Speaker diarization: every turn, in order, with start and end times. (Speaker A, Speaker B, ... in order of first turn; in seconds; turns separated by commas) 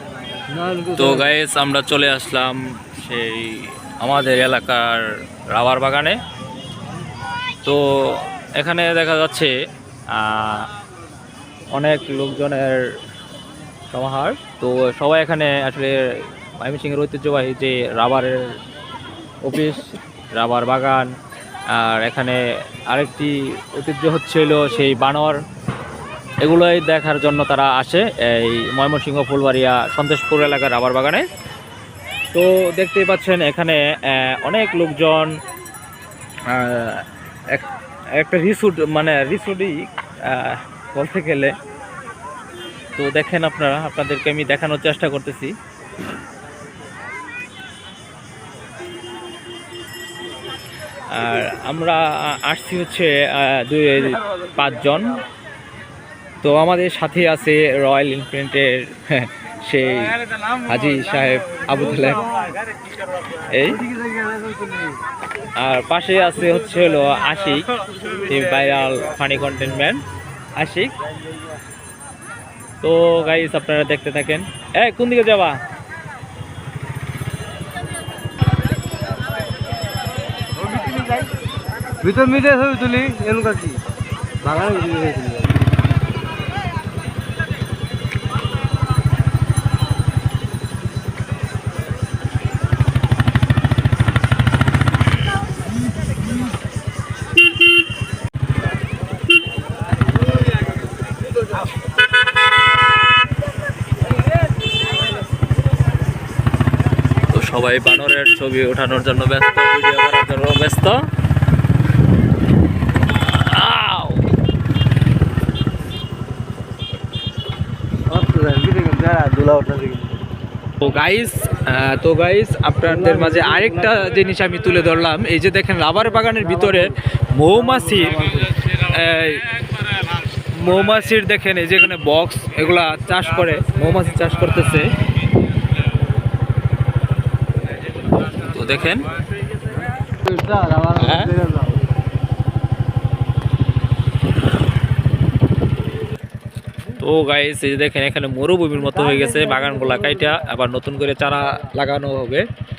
Speaker A: 0.5-1.3, Speaker B: 1.0-6.2, Speaker B: 7.6-9.5, Speaker B: 10.1-10.7, Speaker B: 11.7-12.8, Speaker B: 13.9-16.0, Speaker B: 16.6-18.4, Speaker B: 19.4-21.1, Speaker B: 21.7-25.4, Speaker B: 26.4-31.2, Speaker B: 32.3-35.3, Speaker B: 36.5-37.7, Speaker B: 38.2-41.5, Speaker B: 43.0-45.5, Speaker B: 51.1-55.2, Speaker B: 56.4-62.3, Speaker B: 63.4-63.8, Speaker A: 63.7-65.0, Speaker B: 65.6-67.6, Speaker B: 68.2-70.0, Speaker B: 70.6-70.9, Speaker B: 72.8-75.6, Speaker A: 82.0-83.8, Speaker A: 84.4-85.5, Speaker B: 107.3-111.0, Speaker B: 113.1-114.2, Speaker A: 118.1-120.2, Speaker B: 120.8-129.5, Speaker A: 122.8-124.1, Speaker A: 126.2-127.0, Speaker A: 127.5-128.5, Speaker B: 130.6-134.9, Speaker B: 138.3-139.1, Speaker A: 140.2-141.8, Speaker B: 141.0-141.3, Speaker B: 147.0-152.5, Speaker A: 148.8-150.4